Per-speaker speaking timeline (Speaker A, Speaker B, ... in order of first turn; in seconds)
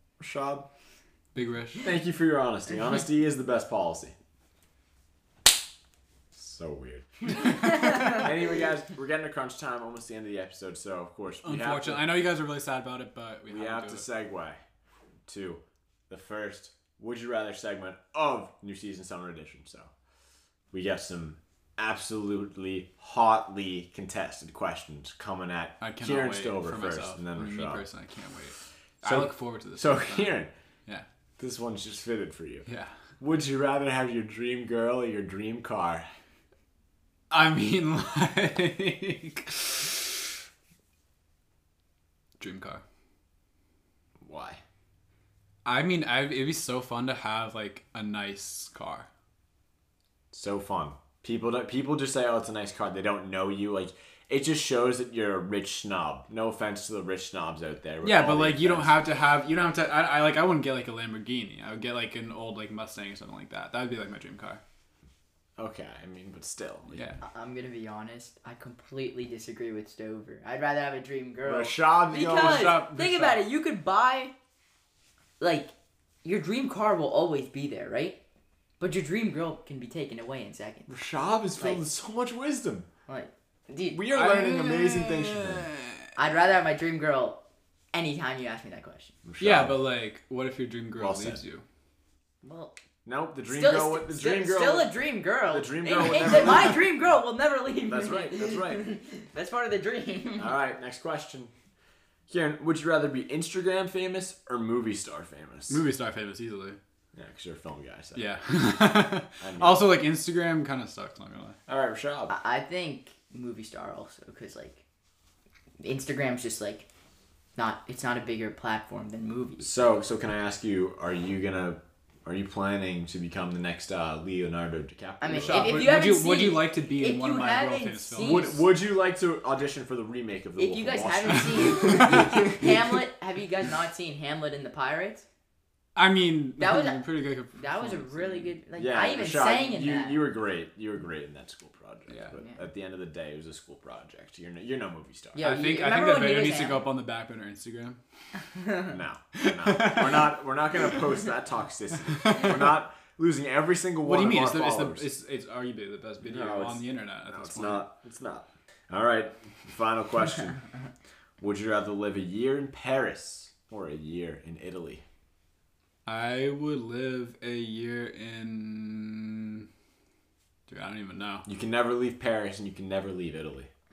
Speaker A: 0.2-0.7, 1.8-4.2, 6.3-7.0, 7.9-12.2, 13.5-14.6, 15.3-19.9, 20.7-27.8, 29.0-30.5, 31.4-32.7, 33.2-36.1, 44.2-44.6, 50.3-59.0, 65.6-67.0, 71.4-72.8, 80.9-82.9, 83.9-85.7, 89.2-89.8, 91.0-91.4, 93.0-97.0, 97.8-98.8, 100.3-101.5, 102.3-105.8, 107.1-108.3, 109.4-110.0, 111.7-112.3, 119.6-126.0, 128.2-132.3, 138.8-145.5, 148.9-155.1, 156.2-160.6, 161.4-165.0, 171.4-173.7
Speaker B: 1.3-1.9, 11.4-14.1, 25.8-31.0, 32.6-32.9, 37.3-40.0, 42.4-42.8, 45.6-49.1, 58.0-64.6, 72.2-73.5, 84.1-86.1, 89.4-91.6, 105.7-106.8, 108.1-111.6, 125.4-128.6, 131.3-132.4, 135.9-138.6, 142.1-142.3, 145.4-148.0, 149.3-150.4, 152.2-152.6, 154.0-157.9, 166.1-169.7, 170.7-171.4
Speaker C: 7.6-8.1, 67.2-74.3, 75.4-75.7, 76.2-78.2, 78.8-80.9, 83.1-84.0, 86.2-87.4, 87.9-89.1, 92.4-92.7, 93.5-100.5, 112.3-114.8, 115.8-116.9, 117.5-119.7, 125.2-128.6, 130.6-135.2, 136.6-140.2, 142.3-142.6, 145.3-146.9, 148.6-148.9